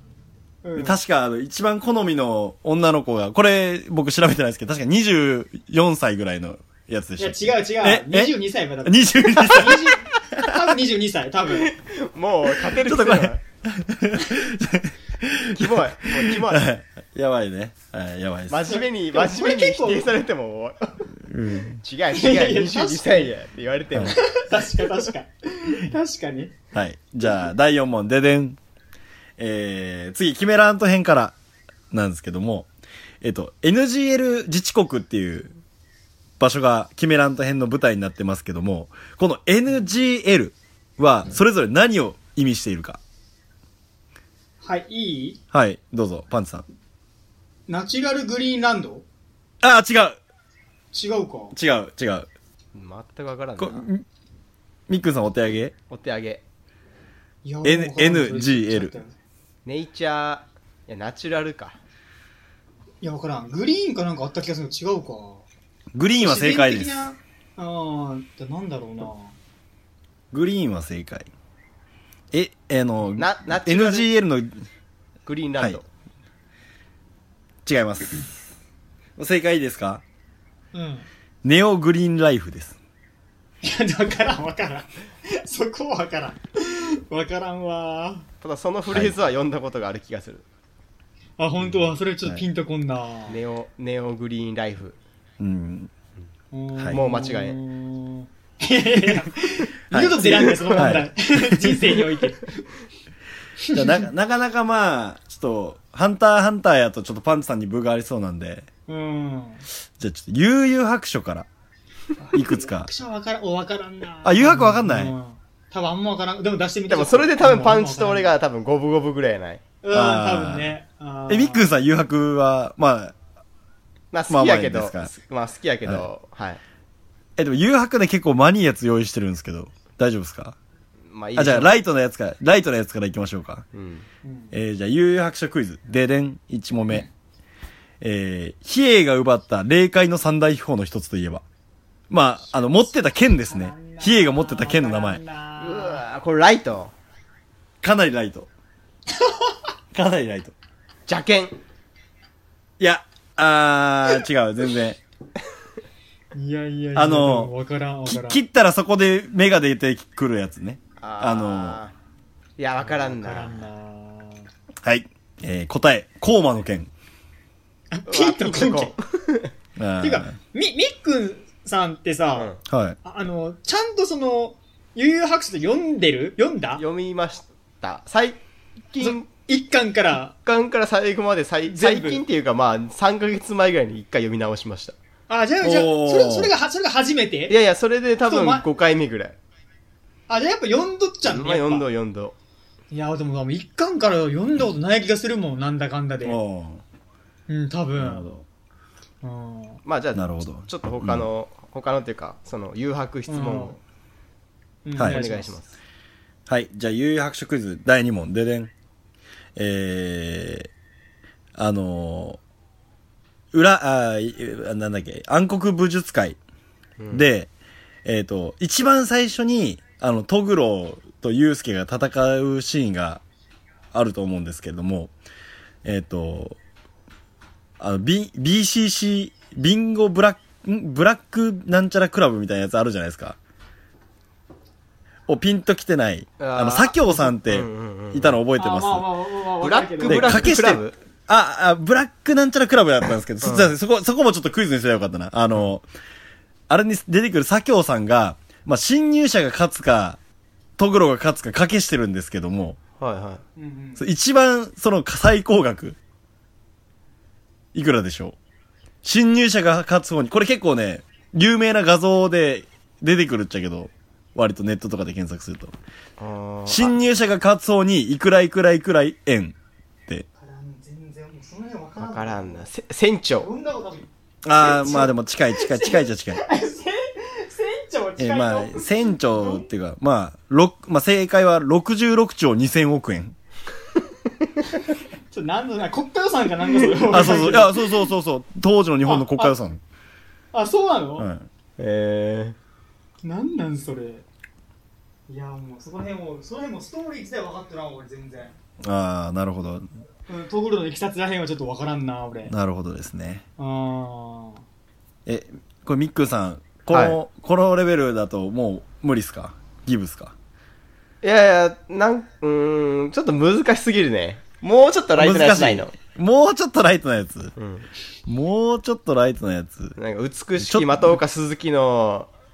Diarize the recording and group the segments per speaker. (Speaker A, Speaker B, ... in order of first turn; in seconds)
Speaker A: 0.6-1.0, 7.2-11.7, 18.7-20.1, 22.1-23.3, 24.1-26.5, 44.6-45.4, 47.7-49.0, 50.9-51.5, 57.4-59.1, 63.0-65.5, 66.2-69.3, 80.7-81.1, 83.6-88.3, 91.4-93.4, 96.5-102.6, 103.6-104.0, 108.9-109.6, 112.2-118.3, 119.8-121.7, 134.2-134.6, 142.6-146.0, 156.3-158.4, 162.9-164.5, 167.9-168.9, 170.0-172.5, 173.0-176.8, 179.0-180.3, 181.7-182.2, 185.3-187.6, 188.2-188.6, 190.3-191.9, 192.9-196.4, 197.5-198.3, 199.2-199.8, 203.3-203.8, 204.8-205.6, 238.6-240.5, 253.6-254.0, 270.4-272.7, 273.4-279.6, 285.3-288.0, 289.0-289.5, 290.5-291.3, 293.2-294.2, 295.3-298.6, 300.3-302.5, 303.6-304.6
Speaker B: 0.8-10.6, 12.7-18.8, 21.3-21.8, 23.9-24.2, 26.7-28.6, 29.4-31.4, 31.9-32.7, 33.2-35.6, 36.4-43.0, 45.5-46.6, 49.6-50.2, 51.5-52.3, 53.6-54.0, 54.9-55.7, 57.6-59.0, 66.0-67.1, 70.3-71.3, 72.3-74.7, 77.7-78.5, 79.2-80.0, 81.4-82.8, 88.9-89.2, 95.4-95.9, 96.8-97.0, 99.9-101.9, 103.7-108.7, 110.0-111.5, 112.3-112.9, 114.2-115.1, 119.9-120.8, 121.3-123.2, 124.3-125.1, 127.4-130.6, 131.4-133.7, 134.5-137.1, 138.0-141.4, 142.1-145.2, 147.8-148.5, 149.9-150.5, 152.8-155.0, 156.9-157.5, 158.1-161.8, 164.8-166.9, 169.8-170.3, 172.7-173.0, 185.6-186.5, 196.2-196.8, 197.9-198.4, 200.2-201.3, 206.5-208.7, 209.6-210.7, 211.6-212.4, 213.5-216.4, 217.1-217.5, 218.1-223.2, 223.9-225.1, 225.8-226.6, 227.8-233.4, 235.3-239.1, 240.0-245.9, 246.7-250.2, 250.8-252.8, 254.0-256.0, 257.7-258.4, 259.0-265.7, 266.7-270.3, 274.4-276.4, 278.2-283.4, 287.1-289.8, 291.2-291.5, 298.8-299.9, 302.5-303.4, 305.3-310.3, 315.1-317.6, 318.3-320.0, 320.6-321.2
Speaker C: 11.5-13.4, 15.6-16.7, 18.5-21.0, 21.8-25.1, 52.7-53.9, 55.9-56.4, 59.6-61.8, 73.2-74.1, 75.3-75.8, 88.4-90.5, 93.3-95.0, 96.9-97.6, 116.9-119.7, 124.1-126.6, 131.1-131.7, 133.7-134.1, 145.6-146.9, 151.1-151.6, 161.0-161.9, 162.6-163.7, 168.1-169.5, 172.3-172.6, 176.8-178.4, 178.9-179.3, 180.4-184.9, 187.5-189.4, 191.2-192.3, 199.9-203.8, 205.0-205.8, 217.0-217.3, 236.4-238.4, 239.6-241.0, 243.4-243.7, 253.0-253.4, 266.2-267.0, 272.0-273.5, 291.8-292.6, 306.9-307.2, 311.2-315.9, 317.6-317.9, 320.0-322.3